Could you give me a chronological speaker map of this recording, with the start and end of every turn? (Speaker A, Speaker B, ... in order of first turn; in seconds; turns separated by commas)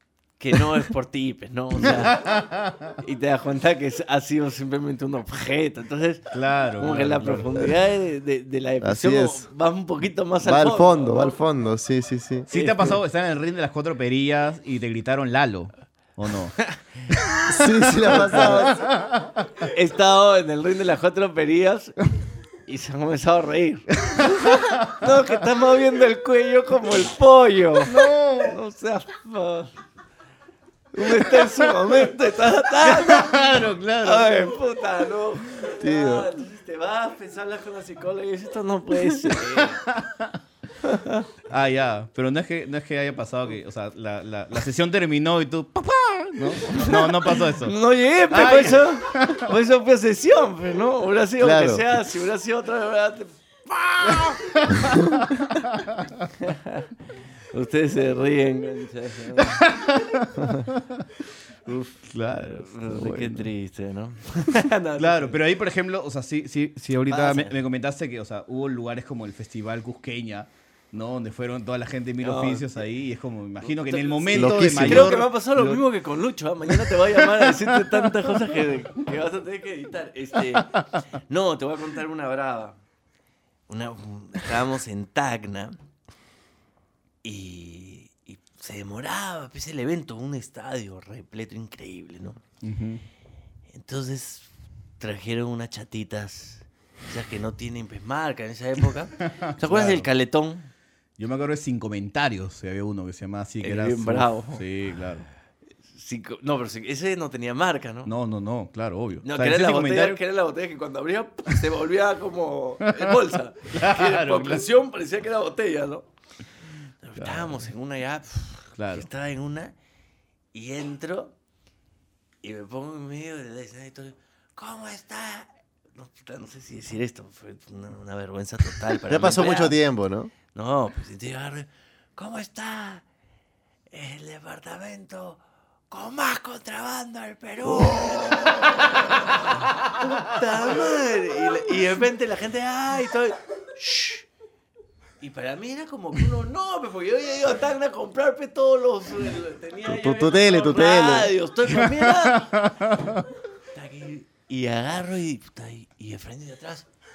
Speaker A: 0.4-2.3, Speaker B: 1.8-3.0, Speaker A: 3.0-11.4, Speaker B: 6.3-7.6, Speaker C: 8.8-9.4, Speaker C: 10.4-12.5, Speaker B: 12.5-16.6, Speaker A: 12.5-12.9, Speaker C: 17.5-18.8, Speaker B: 18.0-19.4, Speaker A: 19.6-22.0, Speaker A: 22.7-29.8, Speaker B: 27.9-28.6, Speaker A: 30.9-39.8, Speaker B: 31.2-32.1, Speaker B: 32.8-34.5, Speaker C: 35.8-36.3, Speaker B: 39.3-40.4, Speaker A: 40.8-41.3, Speaker B: 41.5-47.8, Speaker A: 46.6-54.4, Speaker B: 48.3-49.5, Speaker C: 51.4-51.9, Speaker B: 54.0-56.2, Speaker A: 56.4-56.9, Speaker A: 57.5-59.7, Speaker B: 59.4-61.0, Speaker B: 61.9-63.5, Speaker A: 62.3-65.4, Speaker B: 65.0-75.8, Speaker A: 67.1-67.6, Speaker A: 72.2-72.8, Speaker A: 73.6-82.8, Speaker C: 74.3-75.2, Speaker B: 76.7-78.1, Speaker A: 83.7-85.8, Speaker A: 87.2-92.4, Speaker B: 92.6-93.0, Speaker A: 93.7-94.5, Speaker A: 95.0-100.7, Speaker B: 99.2-100.1, Speaker B: 101.2-105.3, Speaker A: 103.6-104.6, Speaker A: 105.9-108.1, Speaker B: 108.0-110.2, Speaker A: 109.2-116.1, Speaker B: 112.9-113.2, Speaker B: 113.7-114.7, Speaker A: 117.0-119.7, Speaker B: 117.2-117.7, Speaker B: 118.8-119.1, Speaker A: 120.5-121.3, Speaker A: 122.4-129.8, Speaker C: 129.1-130.3, Speaker A: 130.5-133.1, Speaker A: 133.9-144.3, Speaker A: 145.2-152.7, Speaker C: 149.8-151.3, Speaker B: 152.4-153.1, Speaker A: 153.7-156.9